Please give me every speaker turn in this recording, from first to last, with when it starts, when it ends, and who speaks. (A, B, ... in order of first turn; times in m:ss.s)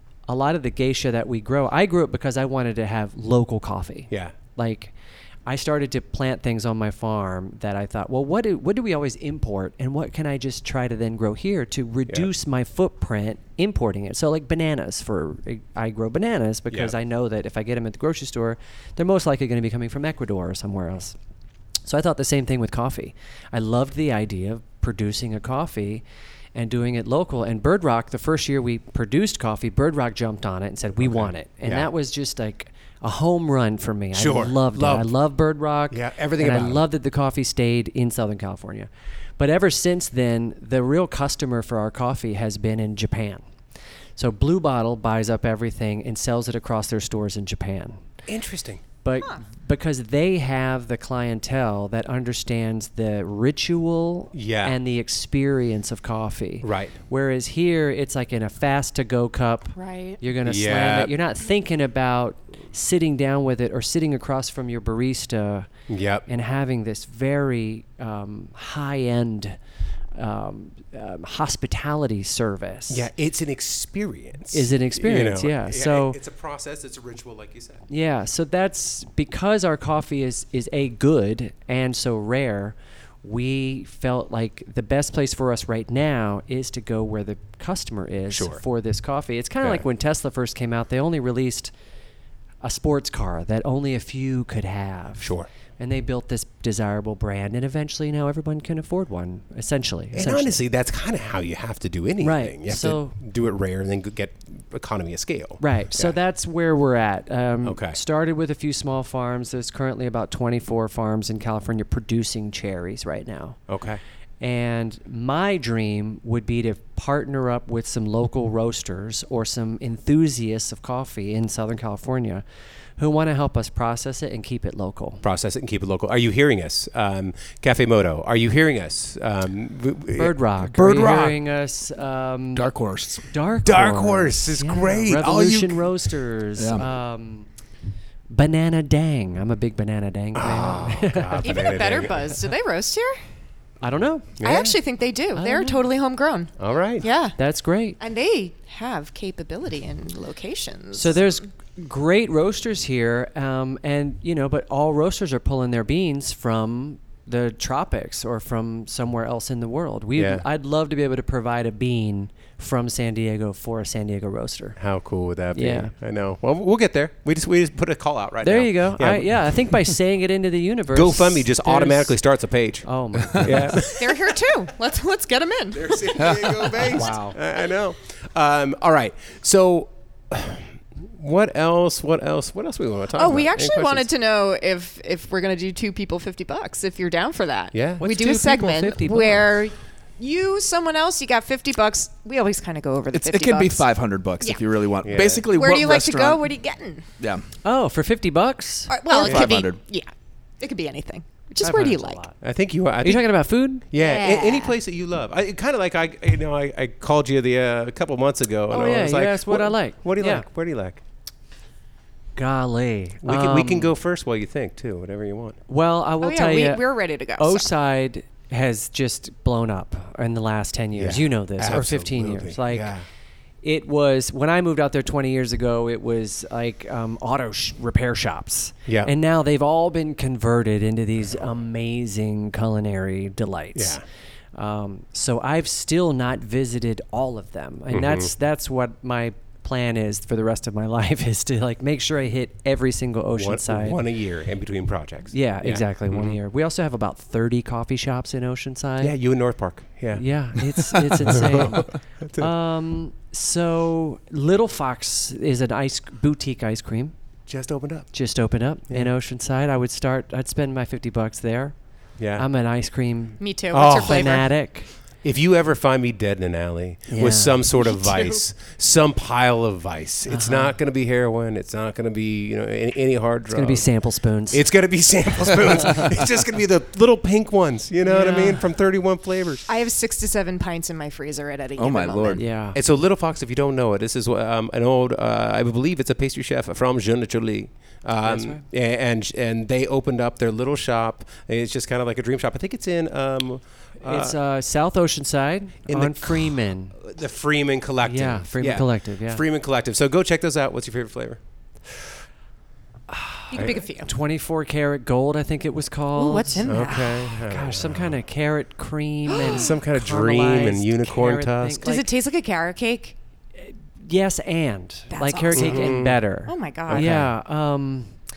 0:00.3-0:04.9 A
0:04.1-0:04.4 B
0:05.4-0:21.2 A
0:16.7-0:16.9 B
0:21.8-0:26.0 A
0:26.5-0:43.4 A
0:31.0-0:31.9 B
0:34.1-0:35.1 B
0:35.9-0:36.8 B
0:44.2-0:48.0 A
0:48.3-0:48.8 B
0:49.0-1:05.7 A
0:54.3-0:54.8 B
0:56.6-0:57.0 B
0:59.7-1:00.2 C
1:00.4-1:01.1 B
1:05.9-1:06.2 B
1:06.3-1:09.6 A
1:10.1-1:13.0 A
1:12.9-1:17.8 B
1:14.5-1:16.2 A
1:17.9-1:31.7 A
1:28.3-1:28.6 B
1:32.6-1:40.6 A
1:35.2-1:35.5 B
1:40.1-1:46.2 B
1:42.2-1:43.1 A
1:45.6-1:53.6 A
1:47.6-1:48.0 B
1:53.7-1:54.0 B
1:54.4-2:02.4 A
2:03.0-2:05.2 A
2:05.2-2:11.4 B
2:10.2-2:12.6 A
2:12.5-2:13.3 D
2:13.3-2:17.5 A
2:13.6-2:16.0 B
2:16.6-2:16.9 D
2:18.3-2:21.6 A
2:20.3-2:22.2 B
2:21.4-2:23.2 C
2:23.8-2:24.3 A
2:24.4-2:24.8 B
2:24.4-2:27.4 C
2:25.4-2:25.8 A
2:26.6-2:27.0 B
2:27.4-2:28.0 A
2:28.0-2:31.4 C
2:30.9-2:44.8 A
2:40.1-2:40.4 B
2:44.8-2:49.9 B
2:45.5-2:45.9 A
2:48.4-2:52.2 A
2:50.9-2:54.3 B
2:52.8-2:53.8 A
2:53.9-2:56.6 C
2:55.7-3:04.1 B
2:56.2-2:56.7 D
2:56.8-2:57.4 A
3:03.1-3:13.8 C
3:07.7-3:08.1 B
3:08.0-3:09.4 A
3:13.1-3:16.4 D
3:15.0-3:15.4 B
3:15.5-3:17.0 C
3:17.2-3:17.4 D
3:17.6-3:19.0 A
3:18.9-3:22.2 C
3:19.1-3:19.8 D
3:21.6-3:22.4 A
3:22.4-3:23.3 B
3:23.0-3:23.8 A
3:23.9-3:31.0 B
3:24.0-3:24.8 C
3:28.7-3:30.4 A
3:32.3-3:33.9 A
3:33.2-3:35.6 B
3:35.7-3:36.8 A
3:36.2-3:37.7 C
3:37.4-3:42.9 A
3:40.9-3:43.0 B
3:43.6-3:54.0 A
3:48.9-3:49.1 B
3:53.7-3:54.0 B
3:54.5-4:04.0 A
3:57.9-3:58.3 B
4:03.3-4:06.4 B
4:05.3-4:09.1 A
4:09.0-4:10.2 B
4:10.1-4:17.1 A
4:11.2-4:12.5 B
4:17.5-4:18.1 B
4:18.1-4:21.7 A
4:22.2-4:22.4 B
4:22.4-4:24.9 A
4:23.4-4:24.5 C
4:23.7-4:24.4 B
4:25.2-4:33.8 B
4:27.1-4:27.6 A
4:27.8-4:28.4 C
4:30.3-4:30.7 A
4:33.5-4:34.6 A
4:34.5-4:39.6 B
4:35.8-4:36.0 A
4:38.0-4:38.6 A
4:39.7-4:42.4 C
4:41.8-4:42.4 D
4:42.4-4:42.8 A
4:42.7-4:54.4 B
4:48.2-4:48.6 A
4:54.0-4:56.9 A
4:55.9-5:01.4 B
4:58.0-4:59.4 A
5:03.1-5:06.8 A
5:03.5-5:04.1 C
5:06.1-5:07.4 C
5:06.6-5:08.2 B
5:07.4-5:12.1 A
5:09.3-5:09.7 C
5:09.4-5:11.9 B
5:11.8-5:13.1 C
5:13.6-5:18.1 A
5:15.1-5:17.1 C
5:15.5-5:16.2 B
5:16.9-5:17.3 B